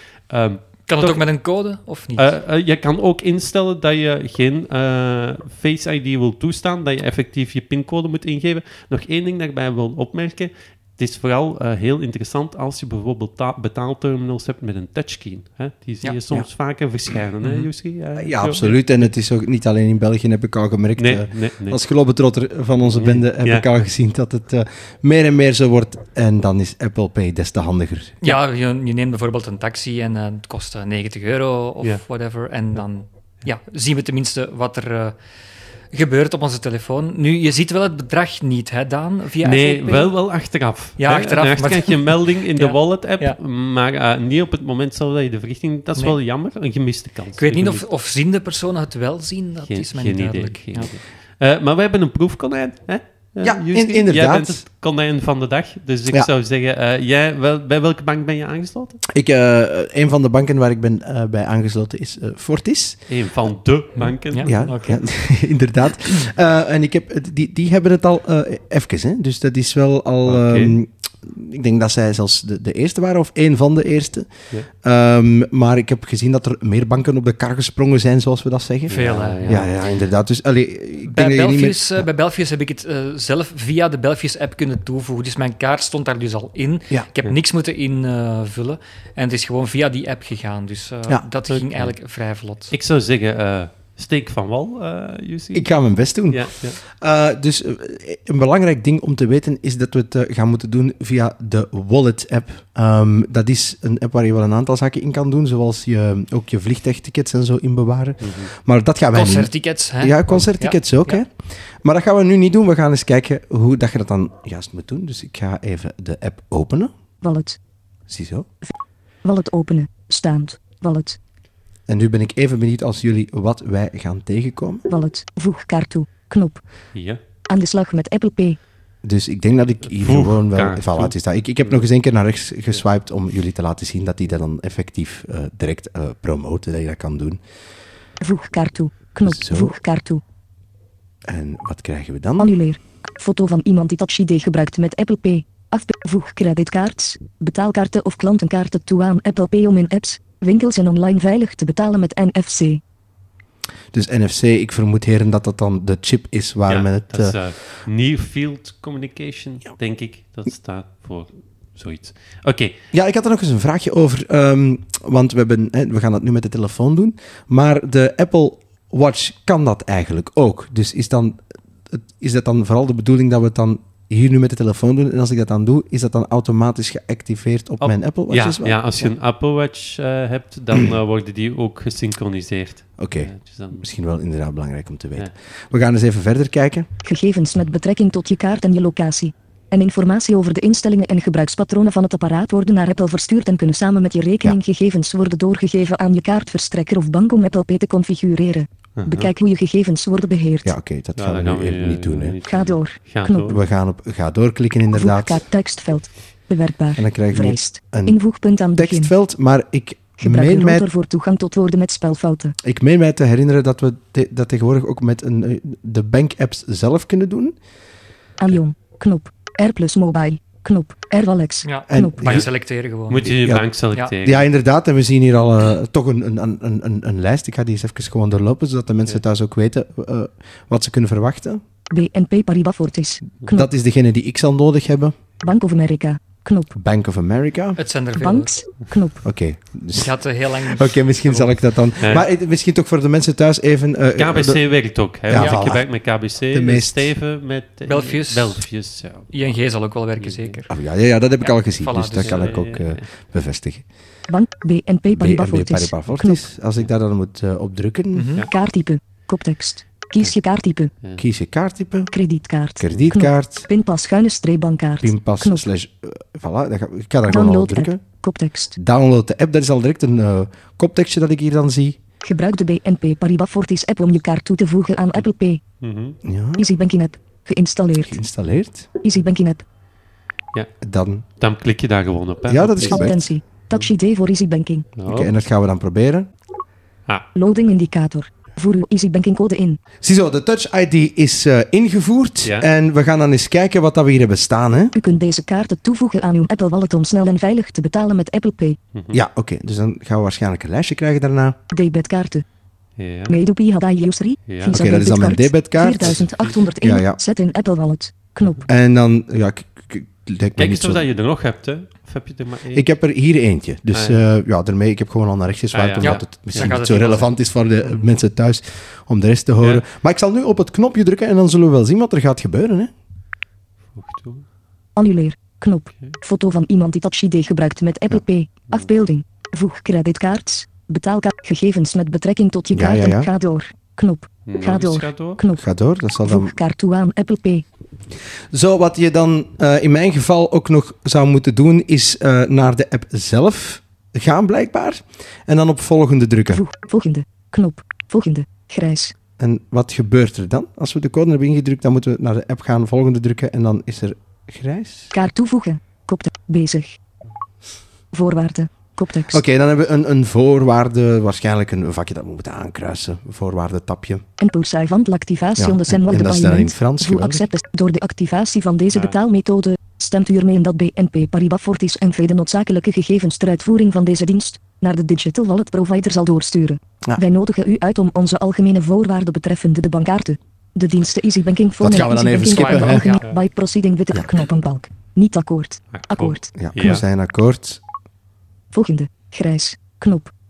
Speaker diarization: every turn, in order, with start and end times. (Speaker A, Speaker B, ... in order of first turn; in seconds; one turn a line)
Speaker A: 0.3-1.2
Speaker B: 0.8-2.3
Speaker A: 2.1-18.8
Speaker B: 17.4-17.7
Speaker C: 18.2-28.2
Speaker A: 21.0-21.8
Speaker A: 22.9-23.7
Speaker B: 28.2-35.2
Speaker B: 35.9-40.1
Speaker A: 39.4-47.8
Speaker B: 41.0-43.4
Speaker B: 47.3-50.9
Speaker A: 49.6-59.0
Speaker C: 53.4-54.6
Speaker C: 59.1-63.1
Speaker A: 63.1-64.6
Speaker B: 64.0-65.0
Speaker C: 64.4-74.3
Speaker A: 70.2-70.8
Speaker C: 74.8-82.1
Speaker A: 78.9-79.7
Speaker B: 78.9-79.7
Speaker B: 81.0-92.7
Speaker A: 91.5-91.9
Speaker A: 92.7-96.8
Speaker C: 95.5-116.9
Speaker A: 108.2-108.5
Speaker B: 109.1-111.2
Speaker D: 117.2-117.6
Speaker C: 118.1-118.5
Speaker D: 119.2-121.2
Speaker C: 121.9-124.8
Speaker D: 124.9-126.6
Speaker A: 126.9-127.2
Speaker D: 127.5-128.6
Speaker C: 129.0-137.4
Speaker A: 129.9-131.2
Speaker D: 138.2-140.2
Speaker C: 139.2-139.8
Speaker C: 141.3-142.5
Speaker D: 142.4-152.8
Speaker C: 153.9-157.4
Speaker A: 156.7-162.7
Speaker C: 162.9-171.4
Speaker C: 171.9-179.1
Speaker A: 177.8-183.8
Speaker C: 183.0-186.9
Speaker D: 187.0-200.7
Speaker A: 199.0-199.3
Speaker C: 200.6-202.4
Speaker A: 201.2-203.6
Speaker D: 202.5-203.6
Speaker C: 203.5-205.4
Speaker D: 204.9-209.1
Speaker C: 207.0-208.2
Speaker C: 208.7-210.9
Speaker D: 210.2-212.6
Speaker C: 212.6-217.5
Speaker D: 218.4-222.4
Speaker B: 221.6-223.3
Speaker C: 221.9-222.5
Speaker A: 223.1-224.4
Speaker C: 224.2-231.6
Speaker D: 231.9-233.7
Speaker C: 233.5-235.1
Speaker D: 235.4-236.7
Speaker C: 236.7-237.8
Speaker B: 237.8-238.5
Speaker D: 238.1-239.2
Speaker C: 239.2-244.6
Speaker B: 239.9-241.5
Speaker A: 244.2-249.6
Speaker C: 245.3-245.9
Speaker B: 245.3-245.8
Speaker C: 246.5-247.1
Speaker B: 247.9-248.7
Speaker B: 249.3-250.7
Speaker A: 250.2-250.6
Speaker C: 250.7-253.8
Speaker B: 251.4-252.5
Speaker A: 252.2-253.1
Speaker D: 254.3-256.4
Speaker C: 255.1-258.3
Speaker B: 258.1-258.5
Speaker D: 258.5-260.9
Speaker C: 261.2-262.1
Speaker D: 262.1-265.6
Speaker C: 262.8-263.7
Speaker C: 265.0-268.0
Speaker D: 267.3-268.8
Speaker C: 268.8-272.0
Speaker D: 272.2-275.6
Speaker A: 275.8-276.2
Speaker C: 276.2-276.7
Speaker D: 276.6-278.2
Speaker C: 278.0-278.9
Speaker D: 279.0-279.6
Speaker C: 280.8-281.2
Speaker A: 281.4-283.1
Speaker C: 282.5-283.2
Speaker D: 282.8-284.9
Speaker A: 284.9-285.3
Speaker C: 285.1-286.3
Speaker D: 287.3-289.8
Speaker C: 290.0-294.9
Speaker D: 294.9-298.8
Speaker A: 298.9-299.2
Speaker C: 299.1-301.6
Speaker D: 301.7-302.4
Speaker A: 303.0-303.4
Speaker D: 303.3-308.7
Speaker A: 304.5-304.7
Speaker C: 304.7-307.2
Speaker A: 306.0-306.5
Speaker C: 308.7-311.0
Speaker A: 310.6-312.9
Speaker C: 312.7-322.9
Speaker A: 313.9-314.2
Speaker A: 315.7-317.2
Speaker B: 316.0-318.1
Speaker A: 323.9-324.4
Speaker D: 324.9-335.6
Speaker C: 332.7-333.3
Speaker A: 334.4-335.4
Speaker C: 335.6-336.6
Speaker D: 336.2-337.6
Speaker C: 338.5-346.6
Speaker D: 346.5-349.1
Speaker C: 349.4-355.1
Speaker D: 355.1-357.0
Speaker D: 358.1-359.4
Speaker C: 359.3-364.2
Speaker D: 364.4-386.5
Speaker C: 365.6-367.4
Speaker A: 368.9-369.1
Speaker C: 381.8-383.1
Speaker B: 382.4-383.2
Speaker C: 384.1-384.4
Speaker A: 385.9-387.0
Speaker C: 386.6-387.8
Speaker D: 388.7-390.3